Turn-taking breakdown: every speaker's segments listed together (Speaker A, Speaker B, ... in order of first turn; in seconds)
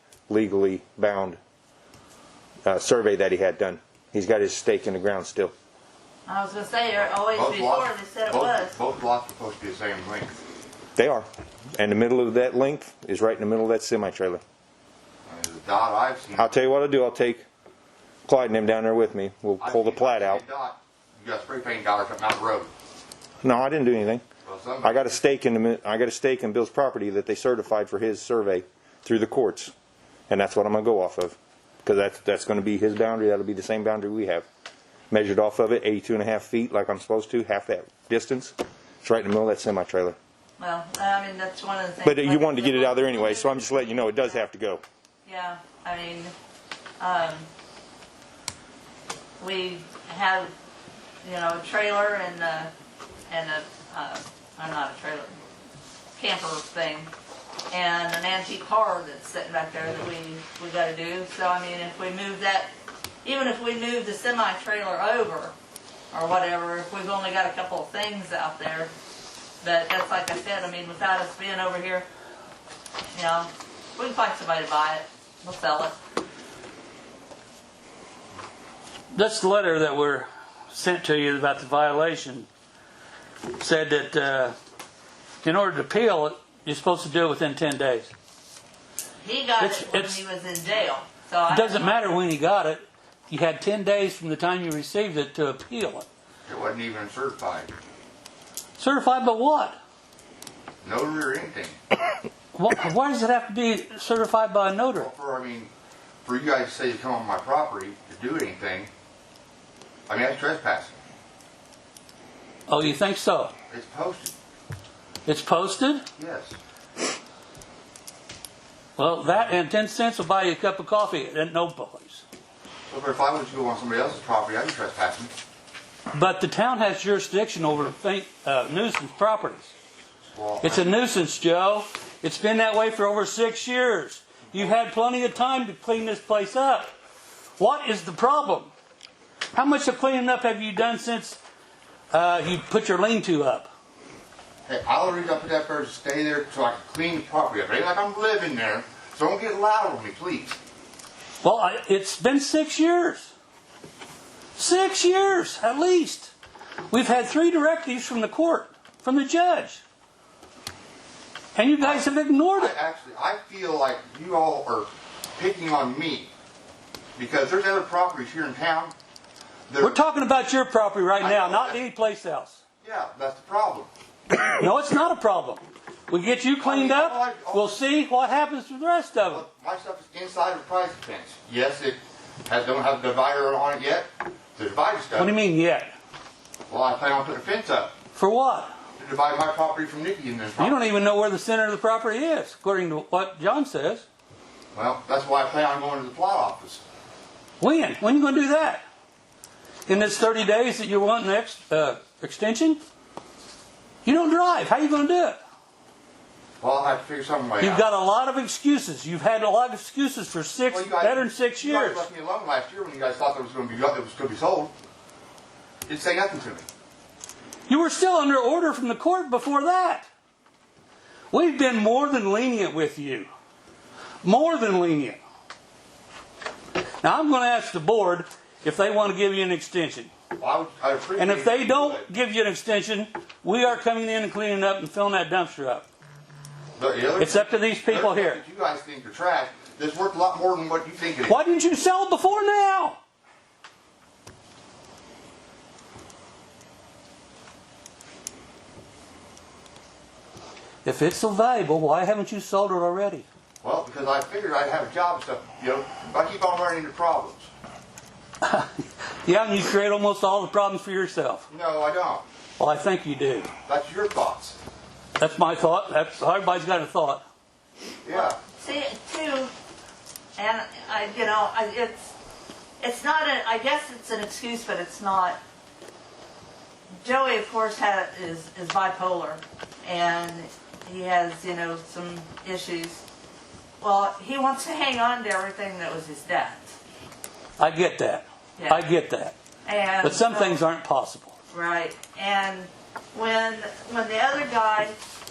Speaker A: 0.3-1.4, 2.6-5.5, 10.9-14.4, 16.4-17.4, 18.3-20.4, 23.4-24.2, 24.8-29.7, 30.3-34.5, 35.1-40.1, 42.0-44.8
Speaker B: 6.3-8.7, 40.6-44.4, 45.2-46.3, 47.0-47.5, 49.4-50.5, 51.2-52.7, 53.3-55.4, 56.2-57.1, 57.7-62.7, 63.2-65.5, 66.1-68.9, 69.6-72.0, 73.1-76.0, 89.2-91.9, 268.1-269.5, 270.4-272.1, 272.8-275.4, 277.0-283.0, 283.8-286.6, 288.6-288.8, 289.6-290.6, 291.5-294.9
Speaker C: 7.3-10.4, 15.2-16.5, 19.6-22.7, 24.4-25.1, 96.5-97.7, 100.8-101.8, 104.9-105.7, 106.2-108.9, 110.1-111.0, 113.7-114.3, 116.2-116.5, 122.9-125.3, 130.3-130.8, 144.7-150.6, 161.8-166.3, 167.2-168.9, 169.7-170.0, 171.2-171.8, 172.8-173.9, 176.6-177.7, 179.2-185.3, 186.7-187.9, 189.0-190.8, 194.7-196.8, 206.6-207.8, 210.7-214.7, 215.9-216.7, 230.4-232.0, 236.8-241.4, 253.6-257.5, 261.5-262.2, 263.6-264.6, 268.0-268.4
Speaker D: 79.1-82.5, 83.5-84.5, 85.4-88.1, 89.6-90.2, 91.5-96.0, 98.8-99.8, 102.5-105.1, 112.7-113.5, 115.2-116.0, 119.0-122.2, 126.1-129.7, 130.6-136.9, 137.6-138.7, 139.5-141.4, 142.1-143.7, 151.4-153.3, 154.6-156.3, 156.9-159.8, 161.6-162.7, 169.8-172.6, 174.5-179.4, 185.2-185.9, 188.1-188.7, 190.6-194.0, 197.6-198.8, 199.8-202.8, 204.0-205.4, 207.6-212.1, 217.7-220.1, 221.3-223.3, 224.2-225.2, 227.0-230.1, 231.2-235.8, 237.2-238.4, 241.2-243.0, 250.8-253.2, 258.4-261.4, 262.6-263.5, 265.2-267.2, 287.6-289.3, 290.0-291.3